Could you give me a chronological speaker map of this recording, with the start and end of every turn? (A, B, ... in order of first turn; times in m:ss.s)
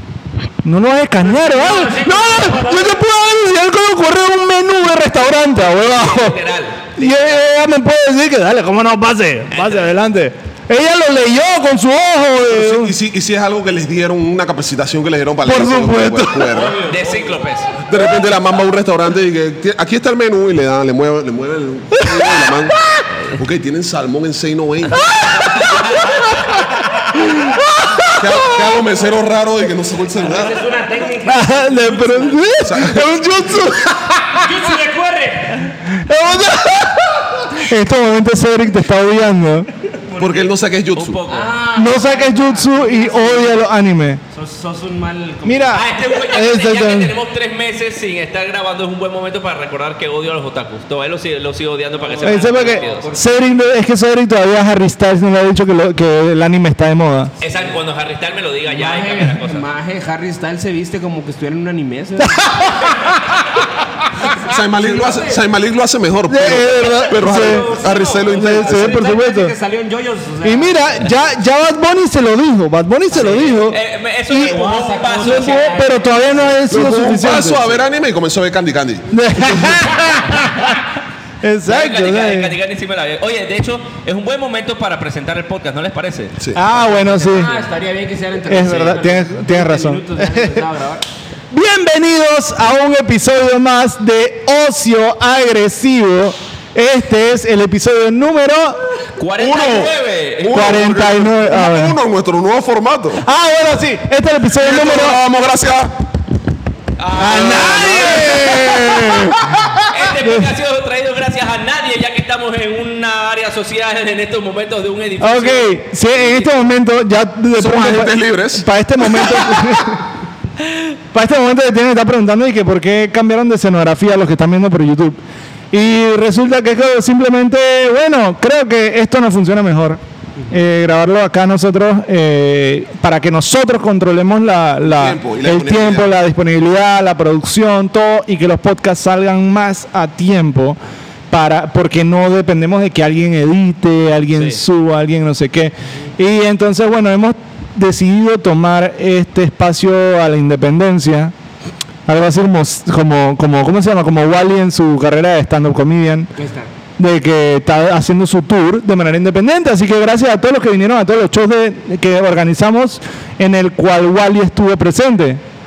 0:00.6-0:06.4 A
0:01.2-0:03.0 B
0:05.4-0:07.4 C
0:07.0-0:12.9 A
0:09.5-0:09.9 C
0:12.5-0:16.8 D
0:15.4-0:16.5 A
0:16.5-0:17.4 B
0:16.8-0:17.7 C
0:17.9-0:25.4 D
0:22.0-0:23.0 A
0:25.0-0:26.4 A
0:25.8-0:26.2 C
0:27.1-0:28.7 A
0:28.1-0:30.6 D
0:30.2-0:32.6 B
0:31.2-0:34.5 A
0:32.6-0:33.8 D
0:34.4-0:35.7 B
0:35.9-0:39.7 A
0:39.9-0:40.5 B
0:40.2-0:41.2 D
0:40.9-0:41.5 C
0:41.3-0:43.7 B
0:41.8-0:44.2 A
0:44.3-0:45.9 B
0:45.4-0:47.1 A
0:45.7-0:53.1 C
0:51.9-0:53.4 B
0:52.2-0:57.3 A
0:57.4-0:57.8 B
0:57.4-0:59.6 C
0:58.6-1:03.0 B
1:02.3-1:02.9 A
1:04.3-1:05.4 B
1:04.4-1:09.0 D
1:06.3-1:07.6 A
1:07.2-1:11.2 B
1:08.3-1:09.5 A
1:10.4-1:13.8 A
1:13.1-1:13.5 B
1:13.1-1:15.8 C
1:14.3-1:14.6 A
1:14.4-1:16.6 B
1:15.2-1:17.8 A
1:16.7-1:20.0 D
1:19.1-1:20.8 A
1:21.4-1:22.5 A
1:21.6-1:27.5 C
1:26.5-1:27.5 A
1:26.9-1:31.0 B
1:28.5-1:30.6 A
1:31.5-1:38.8 A
1:39.2-1:40.8 C
1:39.4-1:43.2 D
1:40.5-1:41.9 A
1:43.2-1:45.2 A
1:44.5-1:45.9 D
1:47.0-1:49.0 C
1:47.1-1:50.5 A
1:47.2-1:49.4 D
1:49.9-1:56.7 C
1:55.2-2:00.1 A
1:57.5-1:59.4 D
2:01.1-2:05.2 A
2:05.7-2:20.8 A
2:14.8-2:16.1 D
2:21.3-2:31.3 A
2:24.4-2:24.6 C
2:32.1-2:36.3 A
2:36.4-2:36.7 B
2:37.0-2:45.4 A